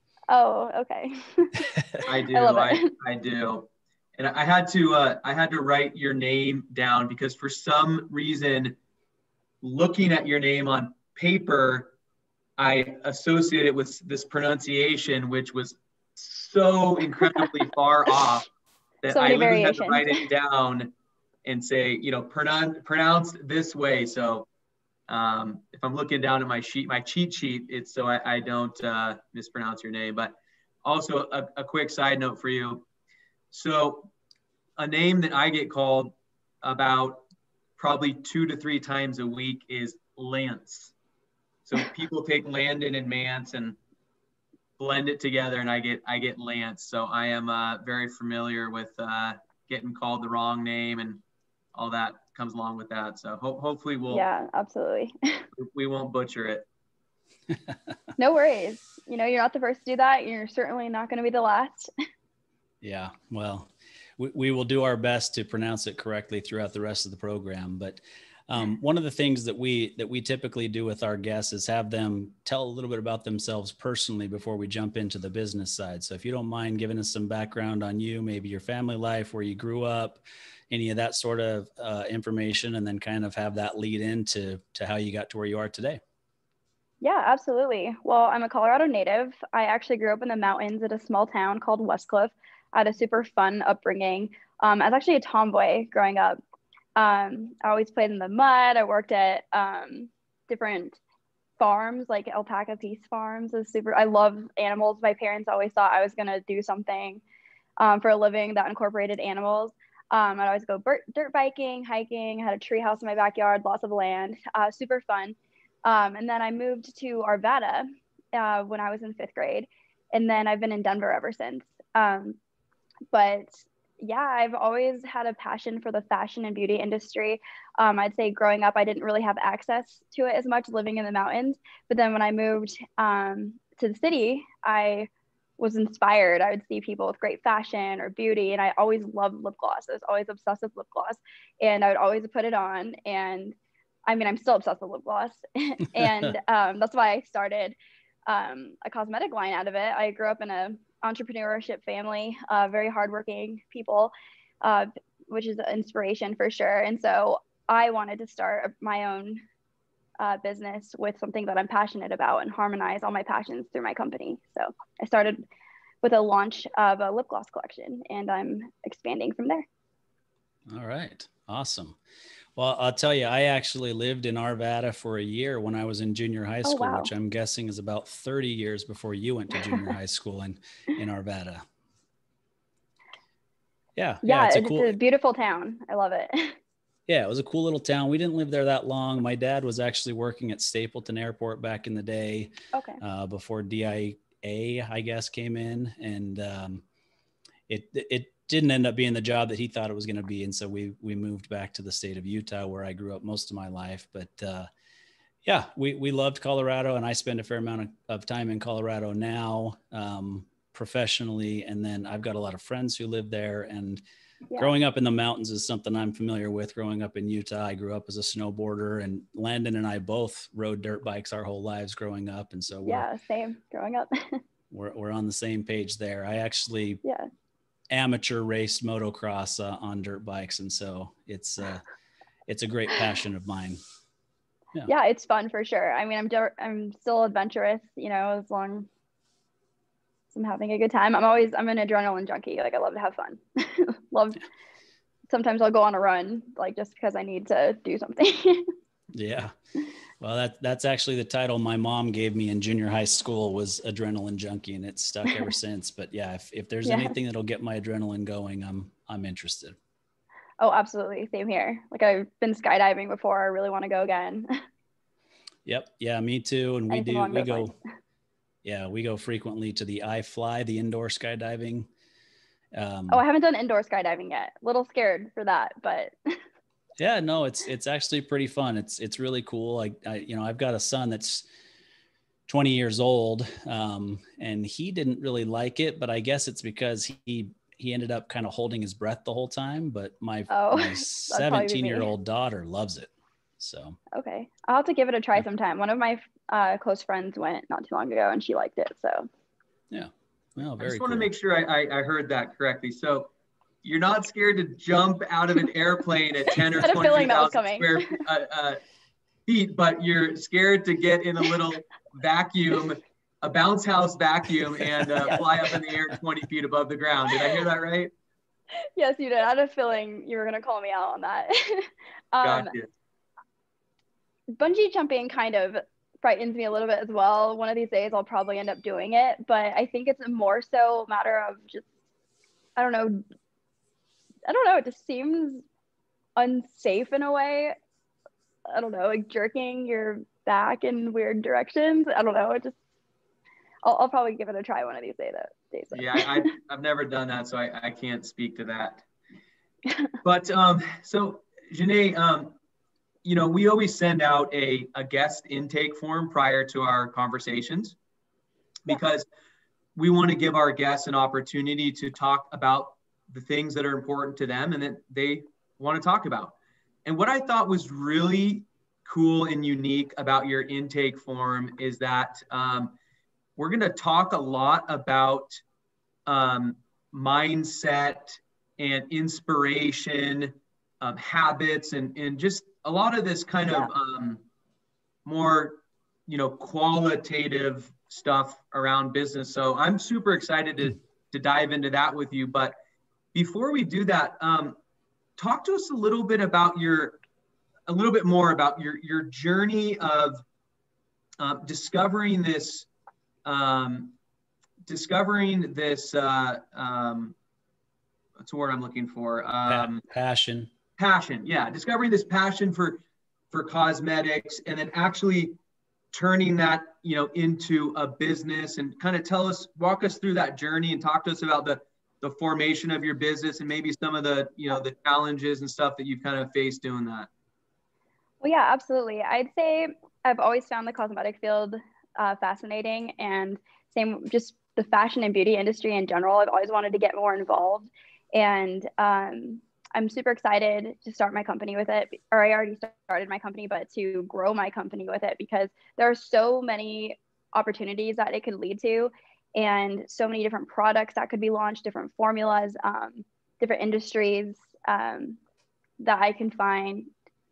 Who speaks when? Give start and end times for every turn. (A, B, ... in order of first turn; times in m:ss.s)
0:00.3-0:02.9 A
0:02.1-0:08.8 B
0:09.6-0:11.9 B
0:12.6-0:18.5 B
0:19.0-0:20.9 B
0:19.1-0:20.2 A
0:21.4-0:24.5 B
0:25.1-0:32.8 B
0:33.5-0:34.1 B
0:34.8-0:37.3 B
0:37.8-0:40.9 B
0:41.7-0:43.8 B
0:44.8-0:51.2 B
0:51.7-0:54.2 B
0:54.1-0:55.5 A
0:55.6-0:56.7 B
0:57.5-0:57.8 C
0:58.2-1:01.9 A
1:02.8-1:26.0 C
1:27.0-1:36.4 A
1:37.0-1:41.0 A
1:41.6-1:47.2 A
1:47.8-2:02.4 A
2:03.1-2:23.6 A
2:24.1-2:27.8 A
2:28.3-2:39.4 A
2:40.2-2:45.4 A
2:46.0-2:49.7 A
2:50.7-2:52.0 C
2:52.6-3:01.6 C
2:56.6-2:57.1 A
3:04.0-3:04.9 C
3:04.2-3:06.6 A
3:07.1-3:16.8 C
3:12.7-3:13.0 A
3:17.7-3:24.7 C
3:25.4-3:34.0 C
3:34.6-3:43.1 C
3:42.8-3:44.4 A
3:44.7-3:47.0 C
3:47.9-3:51.8 C
3:52.5-3:53.8 C
3:54.9-3:58.9 A
4:00.3-4:04.4 A
4:05.3-4:08.7 A
4:09.1-4:09.5 C
4:10.2-4:19.8 C
4:16.8-4:17.2 A
4:20.6-4:24.5 A
4:25.7-4:27.7 C
4:26.9-4:27.7 A
4:28.6-4:31.9 C
4:32.7-4:33.2 C
4:33.1-4:36.4 A
4:37.0-4:41.5 C
4:42.5-4:54.0 C
4:50.5-4:52.1 A
4:54.1-4:59.3 A
4:59.9-5:01.3 C
5:00.8-5:03.3 B
5:03.8-5:08.8 B
5:06.8-5:08.2 A
5:09.5-5:18.1 B
5:19.0-5:22.7 A
5:22.4-5:22.9 B
5:24.6-5:31.9 A
5:32.8-5:33.2 A
5:34.5-5:35.6 A
5:36.4-5:37.8 A
5:38.7-5:42.8 A
5:43.8-5:46.5 A
5:45.9-5:49.0 B
5:50.2-5:52.6 B
5:53.2-5:58.0 B
5:58.9-5:59.3 B
6:00.0-6:13.0 B
6:13.6-6:15.6 B
6:16.3-6:24.4 B
6:25.2-6:32.8 B
6:33.3-6:34.8 B
6:35.4-6:37.2 B
6:37.9-6:40.4 B
6:41.4-6:42.9 B
6:43.4-6:44.2 B
6:44.9-6:47.4 B
6:48.4-6:50.0 B
6:49.7-6:50.7 C
6:51.0-6:55.6 B
6:56.1-7:07.3 B
7:08.4-7:35.4 A
7:36.0-7:37.1 A